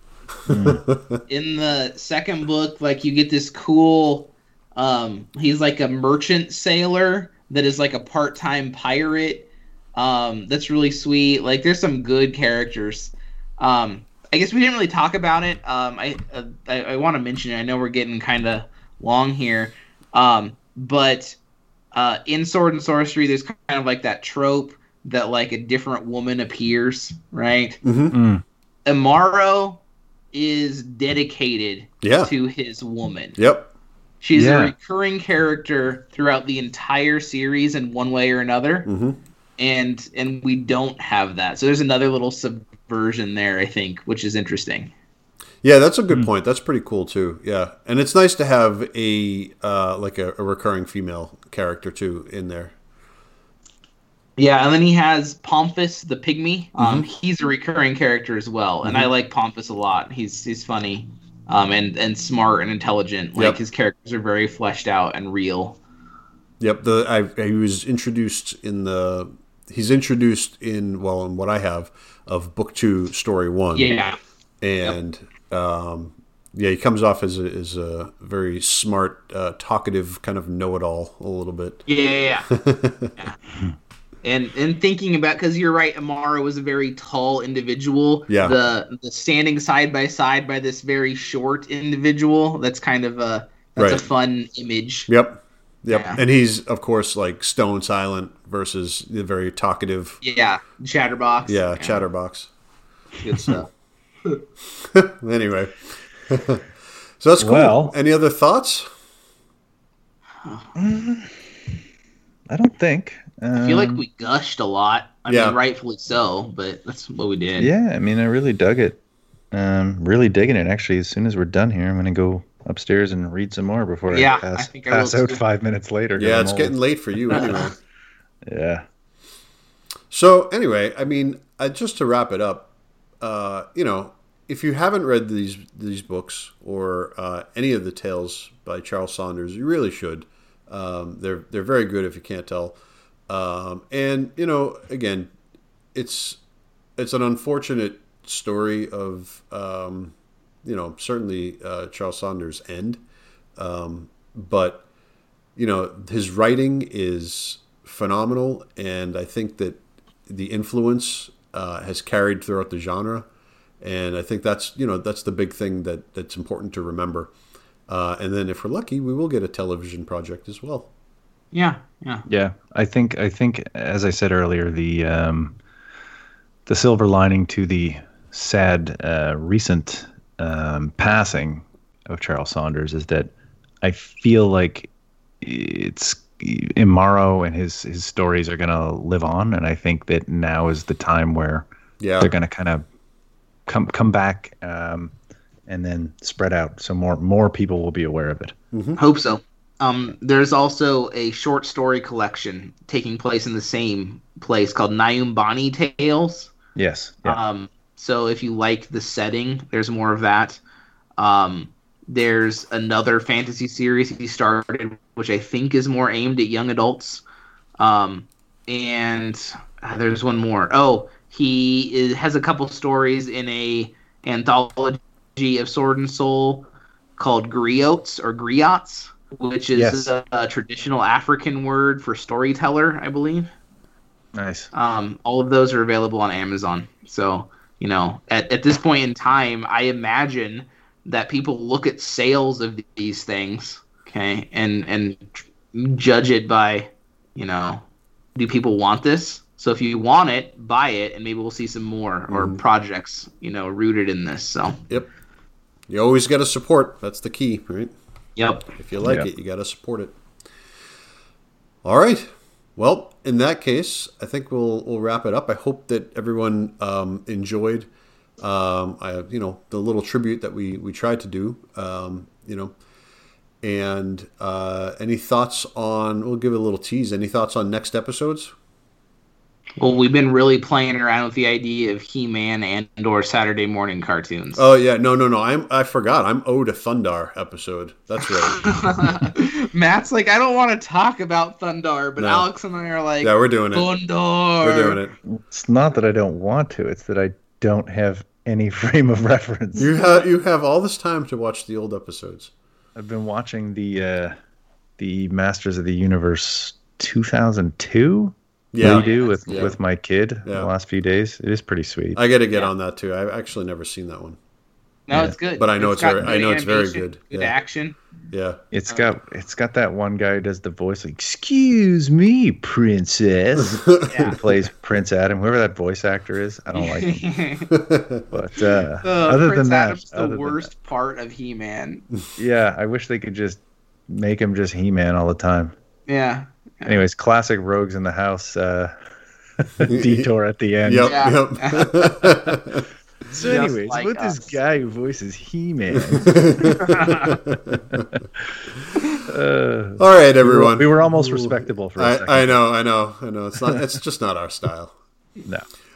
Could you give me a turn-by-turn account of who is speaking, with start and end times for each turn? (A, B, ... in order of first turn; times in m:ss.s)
0:00.4-0:01.2 A
0:00.5-0:00.8 B
0:01.3-0:21.4 C
0:21.9-0:27.8 C
0:27.8-0:28.1 A
0:28.1-0:28.4 B
0:28.8-0:29.8 C
0:30.3-0:33.4 C
0:32.0-0:32.3 A
0:33.4-0:33.7 A
0:34.2-0:38.9 C
0:34.3-0:34.7 B
0:38.8-0:39.2 A
0:39.6-0:44.9 C
0:45.6-0:52.7 A
0:54.4-1:05.8 C
0:56.8-0:57.1 A
1:06.6-1:13.9 A
1:13.7-1:14.2 C
1:14.6-1:21.9 A
1:21.9-1:22.5 C
1:22.5-1:23.1 A
1:24.2-1:35.1 C
1:28.3-1:28.5 A
1:33.8-1:34.0 A
1:35.1-1:40.2 A
1:35.9-1:36.2 C
1:40.2-1:42.0 C
1:41.5-1:42.5 A
1:43.2-1:43.7 C
1:44.9-1:46.6 A
1:47.2-1:48.9 A
1:47.4-1:47.9 B
1:50.4-1:50.7 C
1:50.8-1:51.4 B
1:52.5-1:54.0 B
1:53.6-1:57.7 C
1:55.3-1:55.6 A
1:57.6-1:59.0 B
1:59.5-2:07.6 B
2:04.1-2:05.4 C
2:06.2-2:07.8 A
2:07.3-2:07.7 C
2:08.4-2:08.8 B
2:10.1-2:12.7 A
2:13.2-2:22.8 A
2:23.3-2:25.3 A
2:25.9-2:26.4 A
2:27.0-2:33.0 A
2:33.6-2:34.8 A
2:35.6-2:43.2 A
2:43.8-2:47.3 A
2:47.9-2:50.9 A
2:51.5-2:52.2 C
2:52.3-2:55.6 B
2:56.6-3:11.6 B
3:12.0-3:12.3 A
3:12.2-3:12.8 B
3:13.6-3:15.1 B
3:15.7-3:18.5 B
3:18.7-3:19.0 A
3:19.0-3:26.5 C
3:26.8-3:27.4 B
3:27.2-3:30.6 C
3:31.2-3:37.2 C
3:37.8-3:53.5 C
3:49.7-3:50.1 B
3:54.3-3:54.7 B
3:54.7-4:07.8 C
4:08.4-4:14.8 C
4:12.3-4:12.6 A
4:15.9-4:17.9 A
4:18.4-4:18.7 C
4:18.8-4:20.1 A
4:19.0-4:19.3 B
4:21.8-4:27.9 A
4:28.4-4:32.7 A
4:33.6-4:38.5 A
4:39.8-4:44.6 C
4:44.6-4:48.9 A
4:48.4-4:55.0 C
4:52.2-4:52.5 A
4:53.2-4:53.9 A
4:54.6-4:55.1 A
4:55.2-4:59.9 B
4:59.8-5:00.3 C
4:59.8-5:02.5 A
5:02.9-5:04.3 B
5:05.0-5:12.2 B
5:08.7-5:09.7 A
5:08.8-5:09.7 C
5:12.2-5:14.4 A
5:15.1-5:18.0 C
5:15.6-5:17.5 A
5:18.3-5:18.6 A
5:18.7-5:27.2 B
5:23.6-5:24.1 A
5:24.1-5:24.4 C
5:26.7-5:27.7 C
5:27.7-5:28.2 A
5:28.3-5:30.7 B
5:29.0-5:32.0 C
5:32.4-5:35.7 B
5:36.1-5:37.0 C
5:36.8-5:38.9 B
5:39.6-5:41.2 B
5:39.8-5:40.3 A
5:40.8-5:42.9 A
5:41.0-5:41.9 C
5:42.2-5:42.6 B
5:43.3-5:44.6 C
5:43.3-5:47.0 B
5:46.0-5:46.9 A
5:46.7-5:47.4 C
5:47.4-5:48.1 A
5:47.9-5:48.7 B
5:49.3-5:52.6 B
5:50.0-5:54.9 A